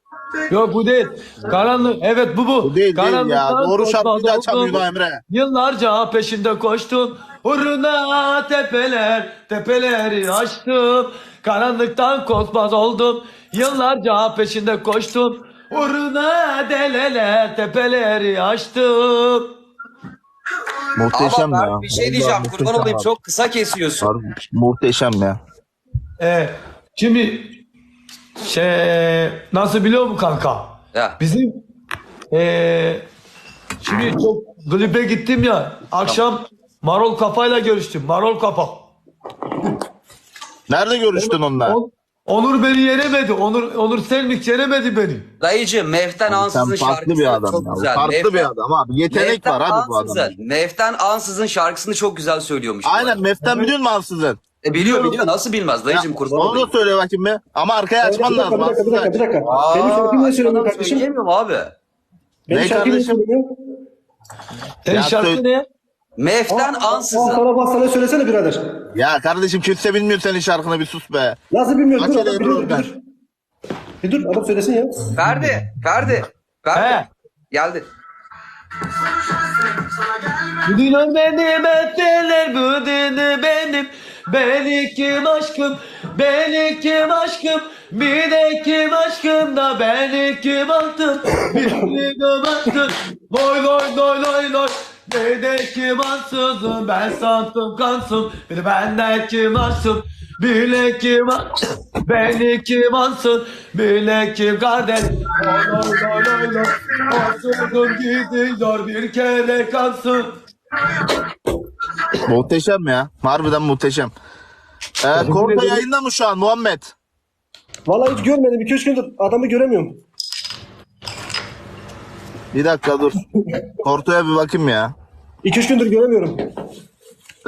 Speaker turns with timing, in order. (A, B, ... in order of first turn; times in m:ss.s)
0:00.5-0:19.5 A
0:02.6-0:05.2 B
0:21.0-0:23.1 B
0:21.1-0:24.1 C
0:24.0-0:25.4 B
0:26.2-0:27.6 A
0:28.4-0:31.5 A
0:32.3-0:33.0 A
0:33.8-0:38.9 A
0:40.7-0:41.8 B
0:41.1-0:45.3 A
0:45.4-0:48.5 C
0:46.3-0:50.3 B
0:49.1-0:53.2 C
0:52.8-0:54.4 B
0:54.6-0:56.7 C
0:54.7-0:55.2 A
0:55.9-0:59.2 B
0:58.0-1:01.1 D
0:59.4-1:01.7 C
1:02.5-1:03.4 D
1:02.5-1:03.2 B
1:04.8-1:05.7 A
1:04.9-1:05.4 B
1:06.2-1:07.4 C
1:06.5-1:08.6 D
1:08.9-1:11.4 B
1:11.5-1:13.0 D
1:12.0-1:12.9 B
1:14.0-1:15.1 D
1:15.2-1:17.9 C
1:16.7-1:17.1 A
1:20.7-1:50.3 A
1:52.2-1:54.1 B
1:55.0-1:56.9 B
1:55.2-1:55.8 A
1:57.9-2:00.0 D
2:02.5-2:03.2 B
2:03.8-2:04.9 B
2:05.4-2:06.4 D